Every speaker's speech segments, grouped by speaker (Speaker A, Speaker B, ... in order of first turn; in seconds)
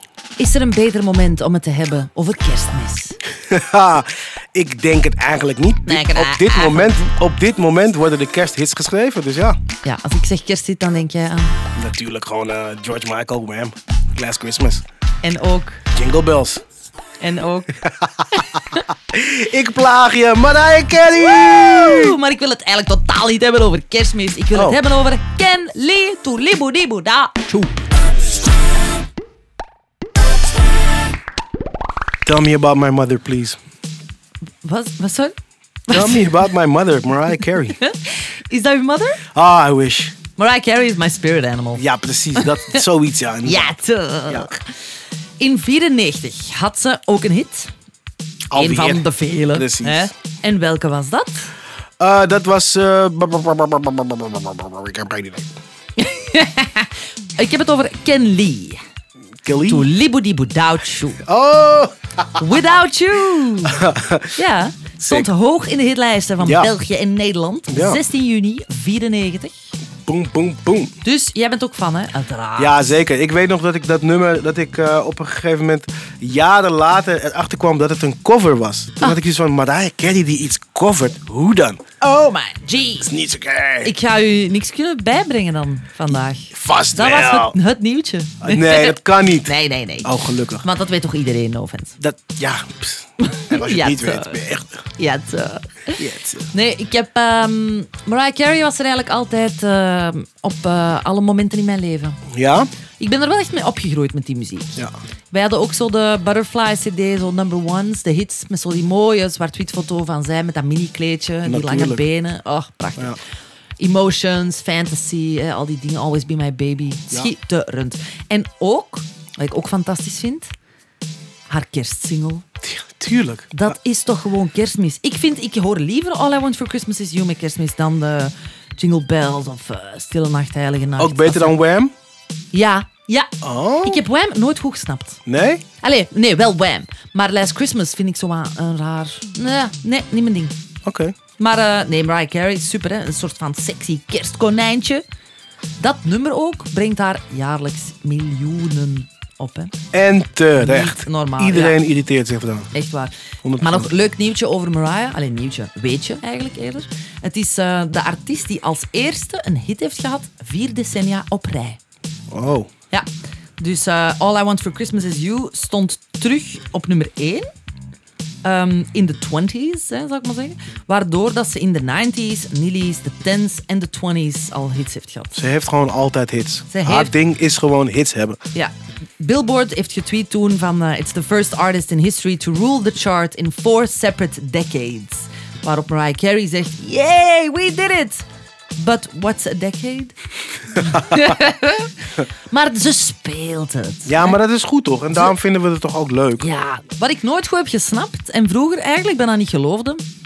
Speaker A: 0.4-3.2, 5.8-7.1, 9.8-11.6, 15.2-15.8, 17.2-18.8, 21.4-27.8, 34.6-35.3, 35.9-36.4, 37.5-39.2, 40.4-42.8, 43.4-44.8, 45.4-47.7, 48.5-51.5, 56.0-58.8, 59.7-61.2, 62.4-63.8, 64.3-69.6, 71.0-73.0, 82.0-83.1, 83.8-92.0, 93.2-94.4, 95.0-102.2, 103.0-113.2, 113.8-120.5, 121.5-122.4, 123.5-131.6, 132.5-133.3, 133.8-135.2, 135.8-140.5, 141.4-145.0, 145.8-149.7, 150.6-151.8, 152.7-161.8, 163.6-167.5, 168.4-175.4, 176.7-177.1, 178.5-188.2, 188.8-190.2, 190.7-194.4, 196.4-200.0
Speaker B: 3.5-9.6, 11.7-14.8, 15.9-16.6, 17.8-18.3, 19.1-22.2, 24.5-24.8, 32.2-33.6, 35.9-37.8, 39.3-40.1, 41.8-43.8, 44.3-44.5, 48.5-50.1, 52.0-55.5, 59.4-59.9, 61.2-62.4, 63.6-64.3, 65.0-65.3, 66.4-66.7, 67.7-68.0, 70.0-70.9, 72.6-81.8, 83.0-83.9, 86.5-87.6, 88.4-90.6, 92.0-94.8, 96.0-96.5, 102.3-102.7, 111.4-112.0, 122.6-123.5, 131.0-131.9, 133.4-134.0, 135.3-135.6, 140.8-141.2, 149.9-152.7, 153.4-153.9, 162.3-162.7, 175.3-178.4, 190.8-191.2, 194.1-196.5